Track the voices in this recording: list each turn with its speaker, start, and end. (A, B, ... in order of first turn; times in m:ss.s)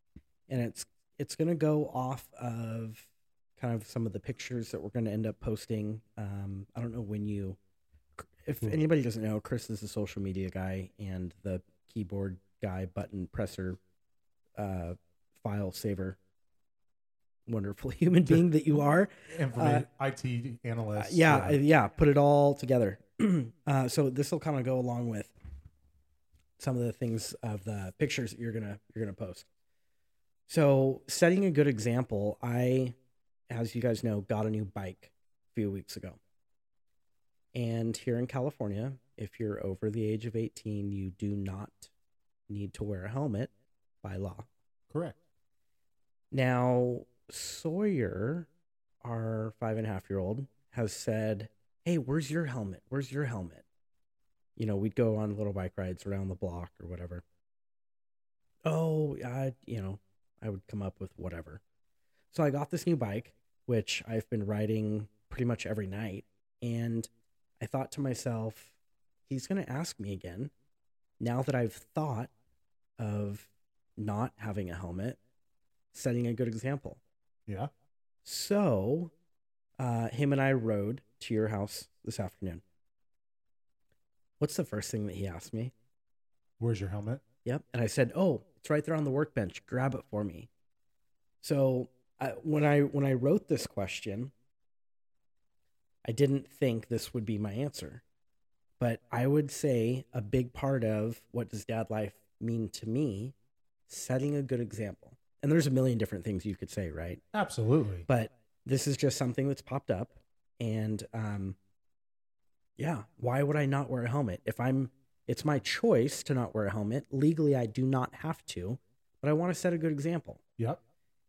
0:00.5-0:07.6 A
0:08.2-0:13.8 A
0:14.6-0:16.2 A
0:17.4-0:19.8 A
0:19.3-0:21.6 B
0:21.0-0:25.3 A
0:26.6-0:29.5 A
0:30.5-0:33.0 A
0:33.5-0:36.2 A
0:37.5-0:41.9 A
0:42.5-0:43.5 A
0:44.0-0:44.5 A
0:44.9-0:45.2 B
0:46.3-0:48.5 A
0:49.0-0:53.6 A
0:54.6-0:57.2 A
0:58.6-1:01.6 A
1:02.3-1:08.7 A
1:09.3-1:10.5 A
1:11.2-1:12.3 A
1:13.0-1:15.2 A
1:15.9-1:17.0 A
1:18.2-1:19.1 A
1:19.8-1:22.6 A
1:24.4-1:25.7 A
1:26.6-1:27.2 B
1:27.4-1:30.5 A
1:31.4-1:34.3 A
1:36.0-1:38.0 A
1:38.8-1:43.3 A
1:43.9-1:47.2 A
1:47.3-1:48.0 B
1:48.1-1:51.6 A
1:52.8-2:00.4 A